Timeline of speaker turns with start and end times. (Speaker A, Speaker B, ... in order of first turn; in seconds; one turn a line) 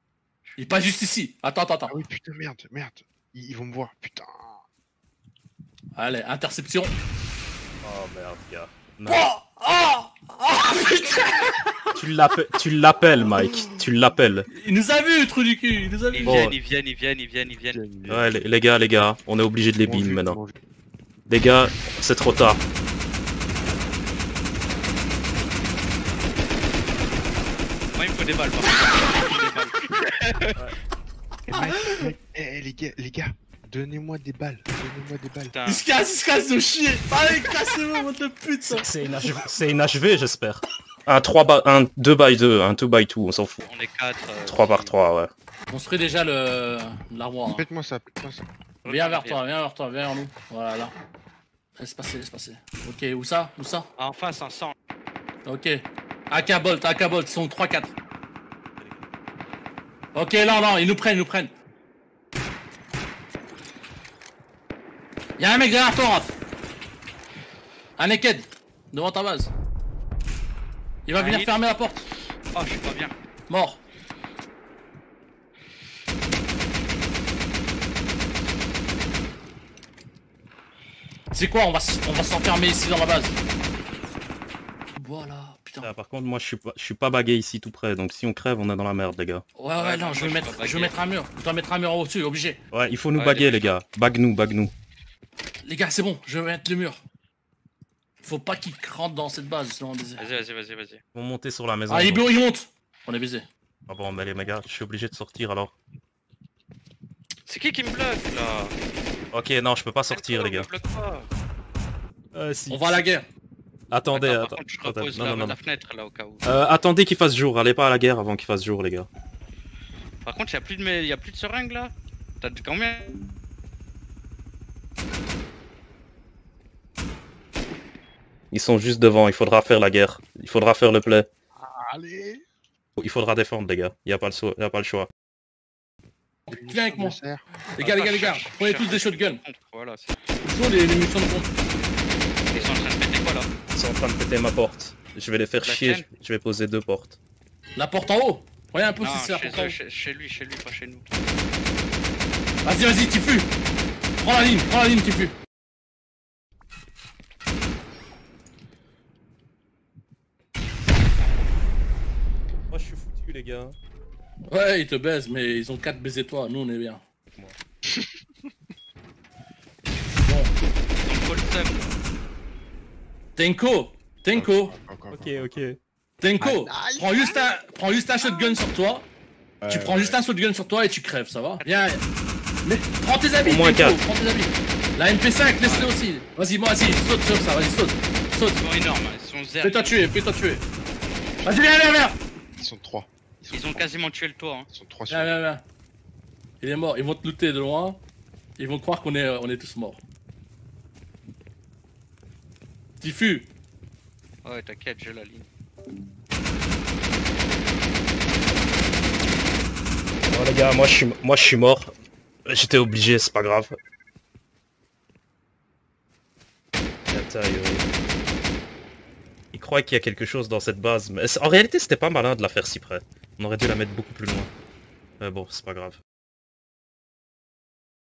Speaker A: 0.6-2.0
Speaker B: 1.9-4.6
Speaker A: 6.0-6.9
Speaker C: 7.8-9.3
Speaker A: 9.1-11.9
Speaker C: 11.9-14.5
Speaker A: 13.5-13.8
Speaker A: 14.6-16.5
Speaker D: 16.1-17.8
Speaker C: 16.2-16.6
Speaker B: 17.7-18.4
Speaker C: 18.1-20.4
Speaker B: 19.8-20.5
Speaker C: 21.3-22.6
Speaker D: 27.9-30.6
Speaker B: 31.5-35.5
Speaker A: 31.5-32.1
Speaker D: 35.5-35.9
Speaker A: 35.6-39.2
Speaker C: 38.6-43.6
Speaker D: 43.6-44.9
Speaker C: 44.4-45.3
Speaker A: 45.7-47.6
Speaker B: 47.5-48.5
Speaker D: 48.8-49.4
Speaker A: 48.8-50.9
Speaker A: 51.8-53.9
Speaker D: 54.0-54.7
Speaker A: 55.4-58.0
Speaker C: 58.8-59.1
Speaker A: 60.1-61.5
Speaker A: 65.4-66.3
Speaker A: 68.0-69.5
Speaker A: 71.0-72.0
Speaker D: 71.2-71.6
Speaker D: 72.5-73.1
Speaker A: 73.5-73.8
Speaker A: 81.3-83.4
Speaker A: 85.0-85.9
Speaker C: 85.8-89.4
Speaker A: 89.6-92.6
Speaker D: 89.8-90.9
Speaker C: 92.7-94.7
Speaker D: 93.2-93.7
Speaker A: 95.6-97.0
Speaker A: 98.2-100.3
Speaker D: 100.2-101.0
Speaker C: 101.1-102.3
Speaker A: 101.9-103.5
Speaker C: 103.9-105.7
Speaker D: 107.5-108.7
Speaker C: 109.3-110.7
Speaker D: 110.1-111.3
Speaker C: 112.3-113.0
Speaker A: 112.7-113.2
Speaker C: 113.9-115.6
Speaker D: 114.1-116.4
Speaker C: 116.4-119.1
Speaker D: 120.2-123.1
Speaker C: 128.5-131.3
Speaker B: 131.6-132.4
Speaker C: 133.0-135.1
Speaker A: 136.5-137.2
Speaker B: 136.5-137.5
Speaker A: 137.7-139.4
Speaker D: 137.8-140.2
Speaker A: 140.4-141.5
Speaker D: 142.5-143.5
Speaker C: 143.7-147.2
Speaker D: 145.6-146.1
Speaker A: 147.8-149.8
Speaker D: 149.0-151.1
Speaker A: 152.6-153.5
Speaker A: 154.2-155.3
Speaker C: 162.7-163.8
Speaker A: 164.5-167.0
Speaker A: 170.2-170.5
Speaker D: 171.0-171.9
Speaker A: 173.3-174.7
Speaker B: 174.3-175.6
Speaker C: 175.1-175.8
Speaker A: 176.2-179.1
Speaker B: 176.4-177.5
Speaker B: 179.6-180.2
Speaker A: 179.7-182.0
Speaker D: 181.6-181.9
Speaker A: 182.6-188.6
Speaker C: 183.4-184.0
Speaker D: 185.6-185.9
Speaker D: 188.5-190.0
Speaker A: 189.6-190.6
Speaker A: 191.4-192.2
Speaker B: 192.6-193.9
Speaker D: 193.5-194.7
Speaker B: 194.7-195.4
Speaker A: 195.1-195.6
Speaker A: 196.6-198.0
Speaker A: 198.6-200.0
Speaker A: 203.0-203.5
Speaker D: 204.4-205.5
Speaker C: 210.3-211.9
Speaker C: 212.4-213.8
Speaker C: 217.1-217.8
Speaker C: 219.5-224.5
Speaker C: 225.2-226.0